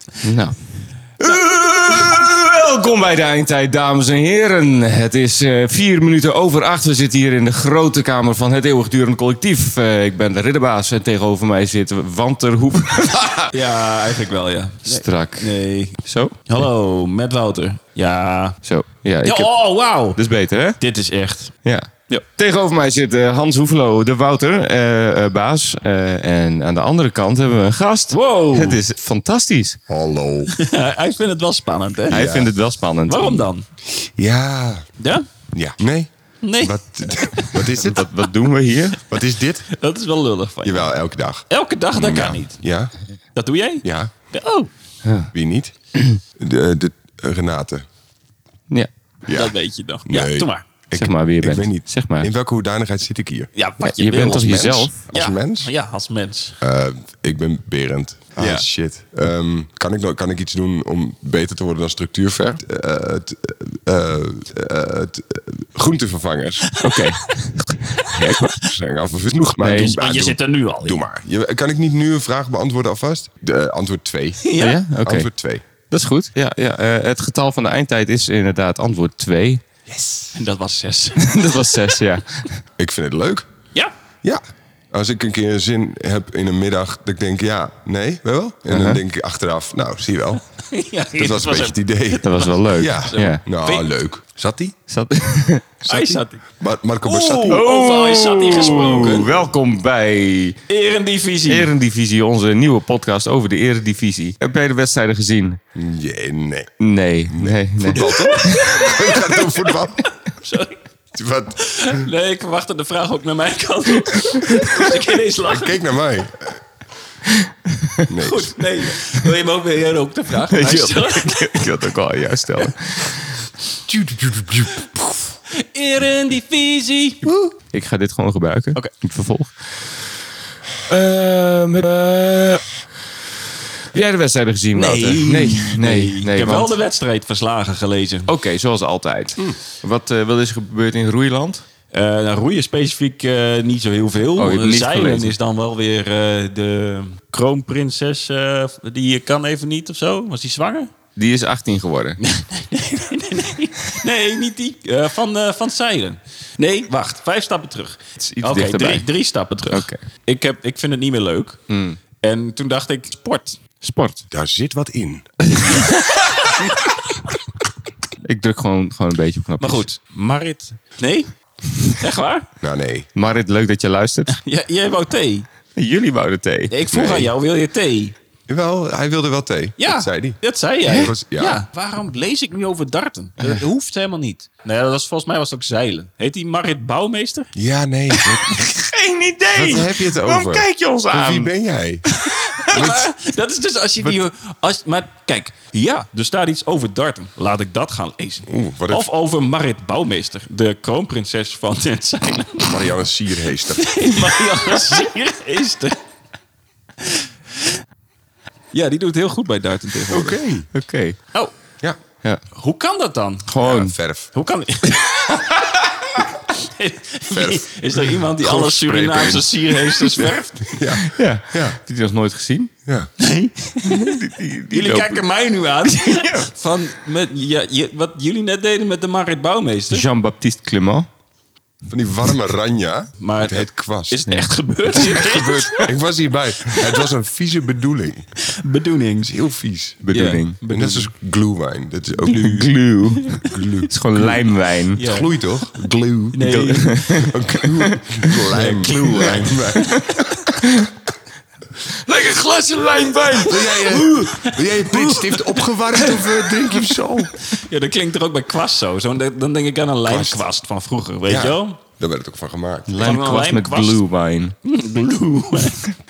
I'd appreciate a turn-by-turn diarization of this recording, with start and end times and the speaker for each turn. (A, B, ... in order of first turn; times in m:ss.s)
0:00.2-0:00.5 A
0:01.2-0:13.5 A
0:13.5-0:18.6 B
0:14.9-0:16.5 A
0:18.6-0:19.6 A
0:19.2-0:20.2 B
0:20.1-0:20.8 A
0:20.8-0:21.6 B
0:21.6-0:29.8 A
0:28.1-0:28.8 B
0:29.9-0:30.5 C
0:30.5-0:32.2 B
0:32.1-0:32.5 C
0:32.1-0:33.5 A
0:33.1-0:33.7 B
0:33.9-0:34.8 C
0:35.0-0:35.3 B
0:35.5-0:38.2 C
0:36.4-0:37.7 B
0:37.8-0:39.0 A
0:39.1-0:39.7 C
0:39.8-0:40.9 B
0:40.6-0:42.9 C
0:41.5-0:42.6 B
0:43.3-0:44.7 B
0:43.8-0:44.1 C
0:45.0-0:45.3 A
0:45.3-0:45.7 C
0:46.4-0:47.8 C
0:49.2-0:53.5 C
0:49.3-0:50.6 B
0:50.9-0:52.3 A
0:53.6-0:56.6 B
0:53.8-0:55.0 A
0:54.2-0:55.7 C
0:56.6-1:06.7 C
0:58.4-0:58.7 B
1:06.7-1:07.3 B
1:06.8-1:08.6 A
1:08.0-1:08.6 B
1:08.6-1:15.6 C
1:09.6-1:10.0 A
1:09.7-1:11.0 B
1:14.4-1:14.8 B
1:14.6-1:15.3 A
1:15.9-1:19.6 A
1:19.9-1:20.3 C
1:20.3-1:21.9 B
1:21.2-1:22.6 A
1:22.8-1:23.5 C
1:24.2-1:30.4 C
1:28.7-1:29.0 A
1:30.7-1:33.9 B
1:31.1-1:34.8 C
1:32.2-1:33.4 A
1:34.9-1:36.1 A
1:35.8-1:36.4 B
1:35.9-1:37.7 C
1:37.0-1:39.3 B
1:37.5-1:40.6 A
1:38.5-1:39.4 C
1:40.7-1:41.7 B
1:41.4-1:45.6 A
1:45.8-1:50.1 C
1:46.8-1:48.5 A
1:47.9-1:49.8 B
1:50.3-1:50.8 B
1:51.1-1:52.1 C
1:51.6-1:55.8 B
1:55.4-1:56.6 C
1:57.3-1:58.1 A
1:58.1-1:58.6 C
1:58.2-2:01.8 B
2:00.5-2:03.4 A
2:03.9-2:05.2 C
2:05.6-2:07.2 B
2:07.7-2:09.5 A
2:10.9-2:12.7 A
2:13.9-2:16.8 A
2:14.7-2:18.3 B
2:18.3-2:21.6 A
2:21.9-2:30.9 B
2:24.4-2:25.3 A
2:31.2-2:32.2 A
2:32.2-2:41.6 B
2:38.2-2:39.1 A
2:39.7-2:40.0 A
2:41.7-2:42.0 A
2:42.2-2:43.6 B
2:43.8-2:44.2 A
2:44.3-2:45.8 C
2:45.6-2:46.8 B
2:48.2-2:49.9 A
2:49.6-2:52.5 B
2:52.6-2:53.1 C
2:53.2-2:54.4 A
2:54.3-2:55.5 B
2:55.8-2:56.8 A
2:56.7-2:58.2 B
2:56.8-2:57.3 C
2:58.5-3:01.6 C
2:59.8-3:07.5 B
3:07.5-3:08.7 C
3:08.1-3:11.5 A
3:09.5-3:12.0 C
3:12.2-3:22.9 B
3:12.7-3:13.1 C
3:18.5-3:19.1 C
3:22.6-3:24.3 C
3:23.8-3:26.0 B
3:27.0-3:27.7 B
3:28.7-3:30.4 B
3:30.1-3:30.7 C
3:30.7-3:31.2 A
3:32.5-3:33.6 B
3:33.5-3:33.9 A
3:33.6-3:34.3 C
3:34.3-3:40.8 B
3:37.3-3:41.8 C
3:41.0-3:42.7 A
3:43.2-3:50.1 B
3:43.8-3:45.2 A
3:45.9-3:46.5 A
3:49.9-3:51.1 A
3:51.9-3:54.2 C
3:53.2-3:55.8 B
3:54.3-3:55.2 A
3:55.0-3:58.3 C
3:56.8-3:57.0 B
3:58.5-3:59.3 B
3:59.2-4:00.0 C
4:00.0-4:00.6 A
4:00.1-4:01.1 B
4:00.7-4:02.8 C
4:02.3-4:05.0 A
4:03.3-4:03.5 B
4:03.4-4:04.4 C
4:05.0-4:05.3 B
4:05.0-4:10.2 C
4:06.3-4:07.1 B
4:06.4-4:08.3 A
4:08.5-4:10.2 B
4:09.2-4:10.9 A
4:11.9-4:14.3 A
4:13.4-4:17.3 C
4:13.5-4:16.9 B
4:17.4-4:21.8 B
4:20.1-4:20.5 C
4:21.2-4:23.1 C
4:22.9-4:24.5 A
4:23.0-4:24.0 B
4:24.6-4:25.9 B